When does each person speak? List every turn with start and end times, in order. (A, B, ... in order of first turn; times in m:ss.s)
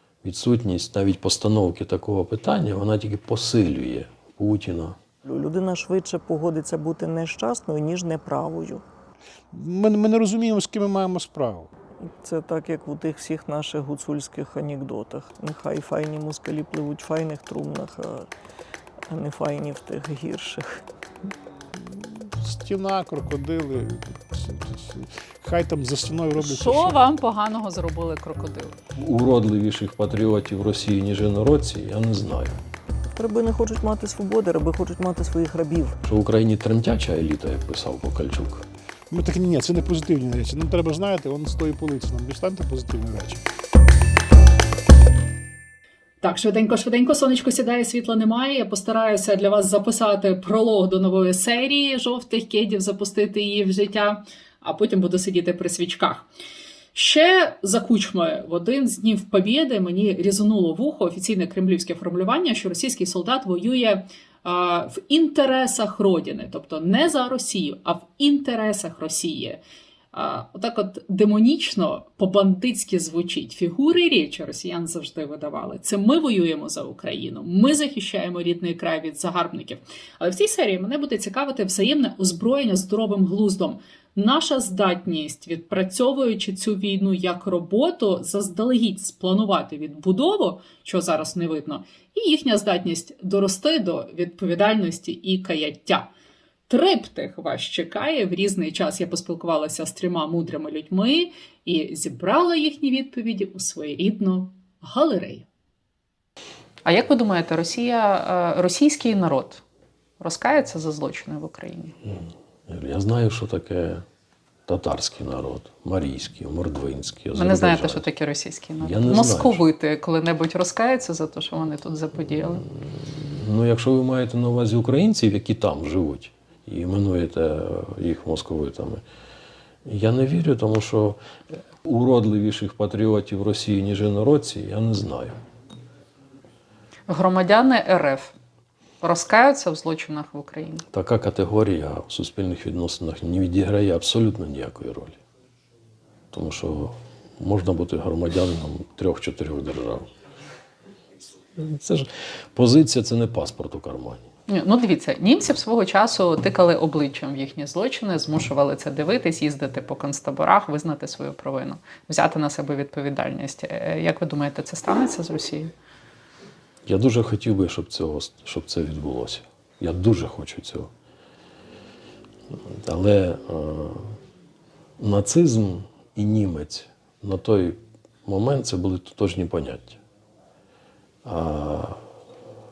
0:00.2-0:05.0 A
0:05.2-0:08.8 B
0:09.5-0:11.7 C
0:12.0-0:18.3 B
0:19.1-0:20.8 B
0:21.8-0:27.1 C
0:26.4-0:28.8 D
0:29.0-0:32.6 A
0:33.2-0:36.0 B
0:36.0-0:38.7 A
0:39.1-0:43.4 C
0:46.2-0:56.3 D
0:56.9-1:09.6 D
1:10.1-1:36.1 D
1:36.7-1:45.5 D
1:46.8-1:49.6 D
1:50.2-1:52.0 D
1:52.1-1:54.0 A
1:54.7-1:58.1 A
1:57.4-2:02.6 D
1:58.8-1:59.6 A
2:02.6-2:09.0 A
2:09.8-2:11.2 A
2:11.8-2:15.4 A
2:17.1-2:18.3 D
2:19.0-2:20.8 D
2:20.9-2:25.2 A
2:26.3-2:30.1 A
2:31.6-2:34.2 A
2:34.5-2:45.7 D
2:46.9-2:50.9 A
2:52.7-2:54.2 A
2:55.0-3:00.0 A
3:01.2-3:02.0 A